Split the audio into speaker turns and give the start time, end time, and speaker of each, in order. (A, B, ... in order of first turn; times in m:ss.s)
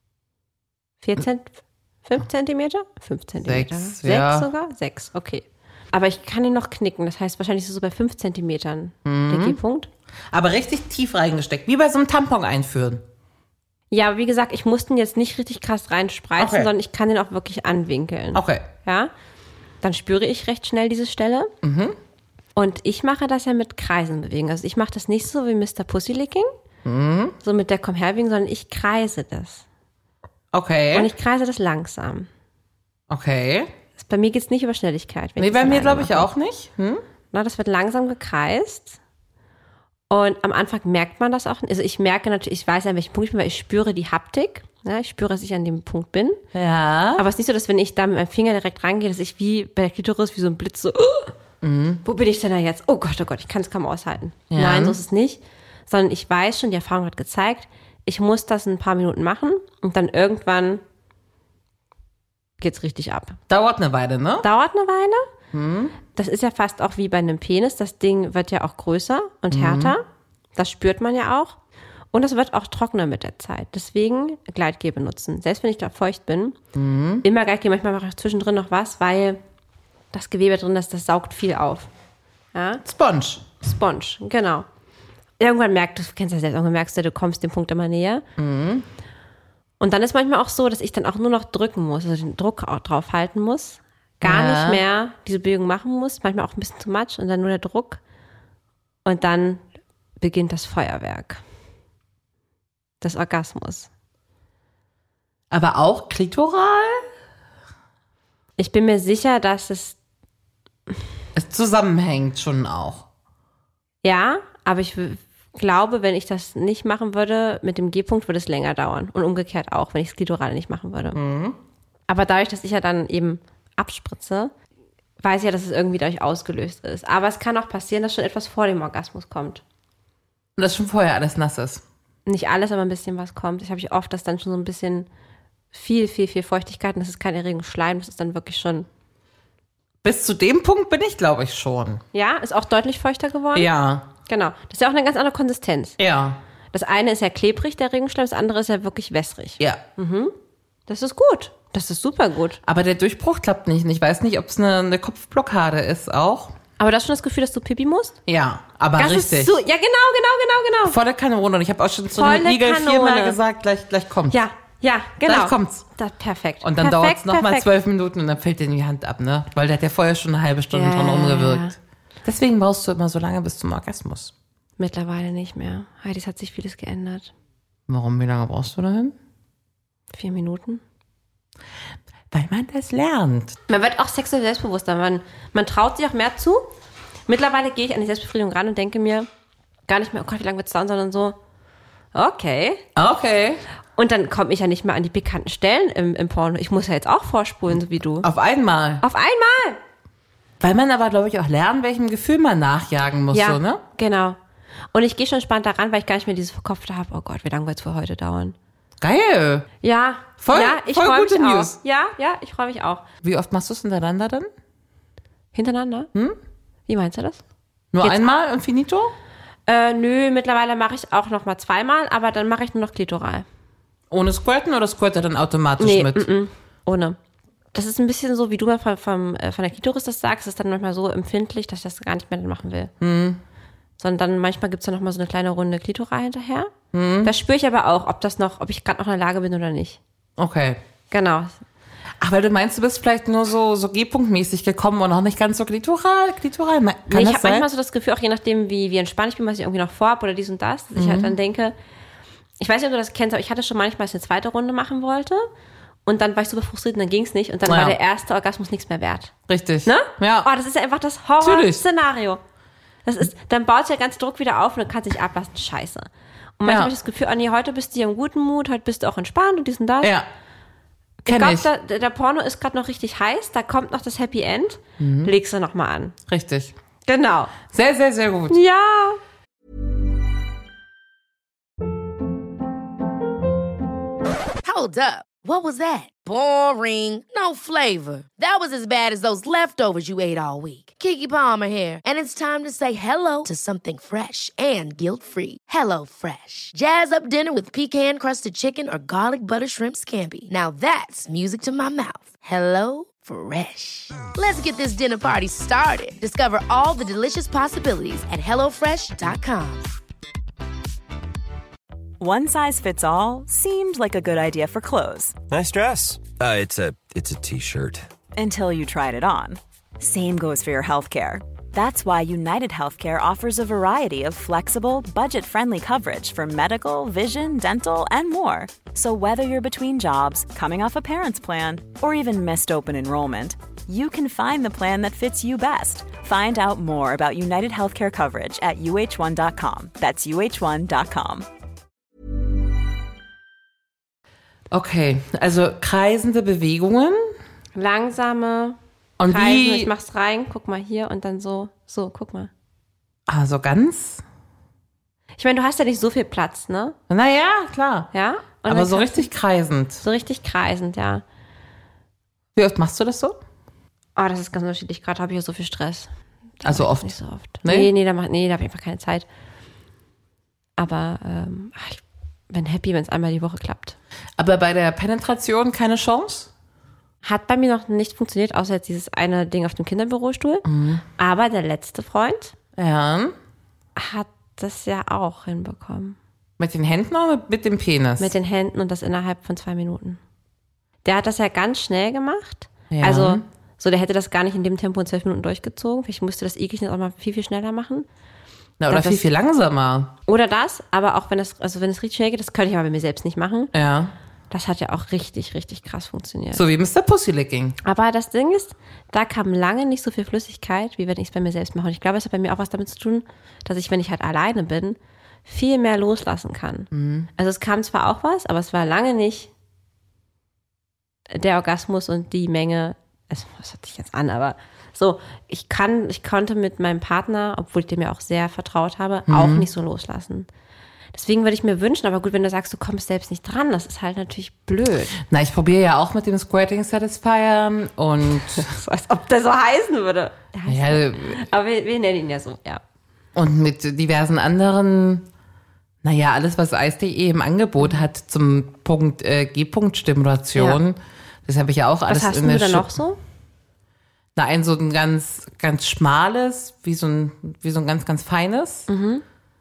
0:01.0-0:09.9 A
0:03.4-0:04.5 B
0:09.0-0:09.6 B
0:10.3-0:13.0 B
0:13.9-0:19.1 A
0:16.4-0:16.7 B
0:18.3-0:18.7 B
0:19.8-0:21.5 A
0:21.6-0:22.0 B
0:22.6-0:26.5 A
0:26.8-0:27.4 B
0:27.4-0:29.6 A
0:30.5-0:31.1 B
0:30.9-0:32.3 A
0:33.1-0:33.7 B
0:34.0-0:36.3 A
0:35.4-0:37.0 B
0:37.3-0:39.0 A
0:40.1-0:46.4 A
0:46.5-0:47.2 B
0:47.2-0:51.3 A
0:51.6-0:52.0 B
0:52.0-1:00.8 A
0:54.5-0:55.0 B
1:02.6-1:03.4 A
1:03.5-1:04.5 B
1:04.4-1:05.3 A
1:05.5-1:06.0 B
1:06.1-1:10.0 A
1:09.5-1:09.9 B
1:10.5-1:11.6 A
1:12.1-1:16.6 A
1:16.7-1:17.2 B
1:17.2-1:19.4 A
1:20.1-1:21.9 A
1:22.5-1:22.8 A
1:22.8-1:23.4 B
1:23.6-1:24.7 A
1:25.4-1:28.2 A
1:28.4-1:28.8 B
1:29.8-1:38.0 A
1:34.2-1:34.8 B
1:39.0-1:39.6 A
1:40.2-1:41.4 A
1:43.0-1:43.9 A
1:45.5-1:47.1 B
1:48.6-1:50.0 A
1:51.3-1:53.1 B
1:54.0-2:01.2 A
2:01.1-2:01.6 B
2:02.1-2:04.5 A
2:05.2-2:09.6 A
2:10.6-2:11.8 B
2:12.2-2:15.1 A
2:15.7-2:18.9 A
2:20.0-2:22.0 B
2:22.1-2:23.7 A
2:23.5-2:24.1 B
2:24.2-2:26.0 A
2:26.0-2:26.4 B
2:26.7-2:30.3 A
2:30.9-2:32.6 A
2:32.6-2:36.6 B
2:36.8-2:38.2 A
2:38.3-2:39.6 B
2:39.0-2:41.0 A
2:40.8-2:44.4 B
2:42.1-2:43.4 A
2:44.3-2:47.7 A
2:45.2-2:45.8 B
2:46.6-2:54.3 B
2:50.7-2:51.8 A
2:54.8-2:57.3 A
2:57.9-2:59.2 B
3:00.1-3:00.8 A
3:02.3-3:03.6 B
3:03.7-3:06.7 A
3:07.3-3:09.3 A
3:09.9-3:11.4 A
3:12.1-3:12.8 A
3:13.0-3:13.6 B
3:14.0-3:18.3 A
3:18.2-3:19.0 B
3:19.0-3:19.8 A
3:20.6-3:23.8 B
3:23.3-3:24.4 A
3:24.9-3:28.6 A
3:29.0-3:29.7 B
3:29.8-3:33.0 A
3:30.4-3:31.8 B
3:33.2-3:34.5 B
3:35.5-3:36.1 A
3:36.9-3:37.4 A
3:37.9-3:39.1 B
3:39.7-3:43.4 A
3:44.1-3:46.3 B
3:45.8-3:47.2 A
3:47.7-3:52.9 A
3:53.0-3:53.4 B
3:54.0-3:56.7 A
3:56.9-3:57.3 B
3:57.2-4:00.0 A
4:00.4-4:00.8 B
4:01.1-4:01.6 A
4:02.2-4:07.7 B
4:07.1-4:11.7 A
4:10.9-4:11.3 B
4:12.6-4:15.4 A
4:16.0-4:19.3 A
4:17.6-4:18.0 B
4:19.5-4:20.5 B
4:19.8-4:22.4 A
4:21.4-4:21.8 B
4:23.0-4:30.1 A
4:26.6-4:26.9 B
4:30.0-4:30.3 B
4:31.2-4:31.7 B
4:31.3-4:36.2 A
4:35.0-4:35.3 B
4:36.3-4:36.7 B
4:37.1-4:37.6 A
4:37.7-4:38.6 B
4:38.5-4:39.2 A
4:44.6-5:09.8 C
5:12.2-5:15.3 D
5:15.5-5:18.0 E
5:18.4-5:41.4 D
5:44.7-5:47.3 B
5:47.7-5:52.5 A
5:49.2-5:49.9 B
5:53.3-5:54.2 B
5:55.4-5:57.0 A
5:57.1-5:58.1 B
5:58.1-5:59.3 A
5:58.6-6:00.0 B
6:00.0-6:01.2 A
6:02.5-6:03.4 B
6:04.2-6:06.1 A
6:06.6-6:09.2 A
6:06.6-6:07.9 B
6:10.8-6:14.0 A
6:14.4-6:16.5 B
6:17.2-6:20.6 A
6:20.6-6:21.0 B
6:21.2-6:22.5 A
6:22.8-6:23.3 B
6:24.0-6:26.2 A
6:26.6-6:28.3 B
6:28.2-6:30.2 A
6:31.0-6:38.0 A
6:32.9-6:33.4 B
6:38.8-6:40.1 B
6:38.9-6:39.3 A
6:40.3-6:43.7 A
6:43.7-6:44.1 B
6:44.5-6:46.6 A
6:46.5-6:47.8 B
6:47.8-6:59.5 A
6:56.9-6:57.3 B
7:01.3-7:10.5 A
7:09.3-7:09.7 B
7:11.1-7:15.2 A
7:15.2-7:18.7 B
7:18.5-7:22.8 A
7:20.7-7:21.4 B
7:23.3-7:25.3 B
7:26.0-7:32.9 B
7:30.5-7:30.8 A
7:32.1-7:33.2 A
7:34.4-7:38.9 B
7:38.9-7:39.2 A